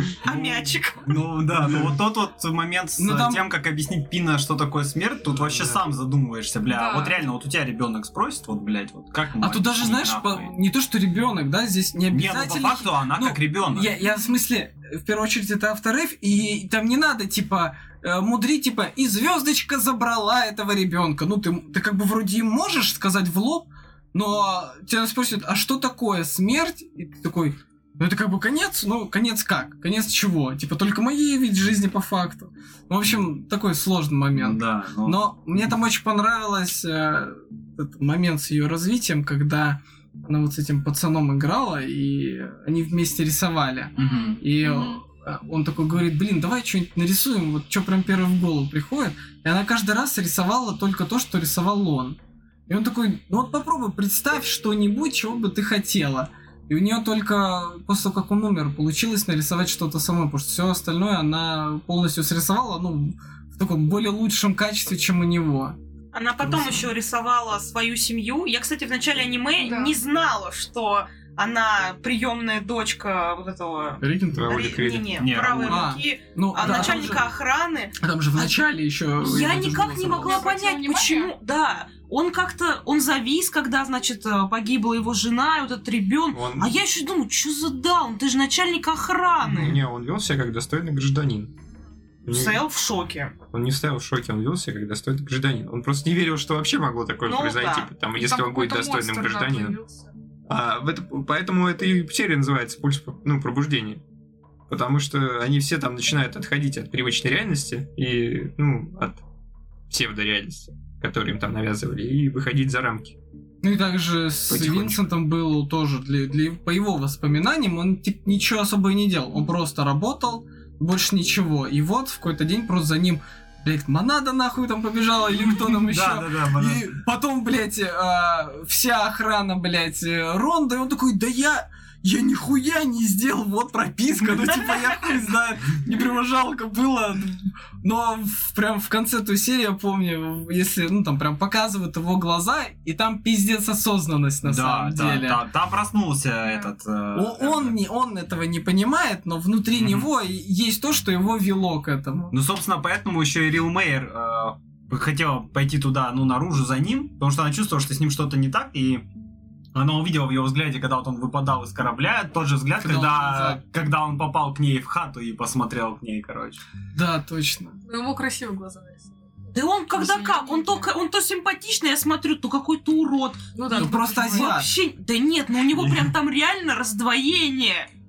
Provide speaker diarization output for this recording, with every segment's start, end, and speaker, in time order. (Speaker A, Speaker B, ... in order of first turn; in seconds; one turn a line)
Speaker A: 0.2-1.2
Speaker B: 0.2-10.5
Speaker C: 3.0-3.5
Speaker D: 5.4-5.8
Speaker E: 6.6-7.2
Speaker C: 9.4-65.8
Speaker B: 12.1-13.9
Speaker E: 14.0-14.4
Speaker B: 34.3-35.2
Speaker E: 44.0-45.0
Speaker B: 44.0-44.4
Speaker A: 66.1-78.5
Speaker E: 69.6-70.0
Speaker C: 74.0-74.7
Speaker D: 74.3-75.3
Speaker B: 75.2-75.9
Speaker C: 75.7-77.3
Speaker C: 78.0-80.4
Speaker A: 79.2-89.8
Speaker E: 80.1-81.3
Speaker D: 86.3-86.7
Speaker D: 89.5-91.5
Speaker D: 92.2-92.6
Speaker A: 92.2-93.3
Speaker D: 93.5-99.8
Speaker A: 97.2-97.9
Speaker E: 98.2-100.1
Speaker D: 100.5-104.0
Speaker D: 104.7-109.2
Speaker D: 109.9-113.2
Speaker C: 113.6-145.4
Speaker D: 114.5-115.1
Speaker B: 125.7-126.9
Speaker B: 144.4-147.8
Speaker E: 146.4-146.7
Speaker C: 147.1-152.3
Speaker B: 149.8-150.1
Speaker B: 152.3-159.1
Speaker B: 159.7-166.6
Speaker C: 162.8-163.6
Speaker C: 166.9-167.8
Speaker E: 167.8-169.1
Speaker A: 169.5-177.9
Speaker E: 169.9-170.9
Speaker E: 173.5-174.6
Speaker C: 173.7-174.7
Speaker D: 175.7-176.1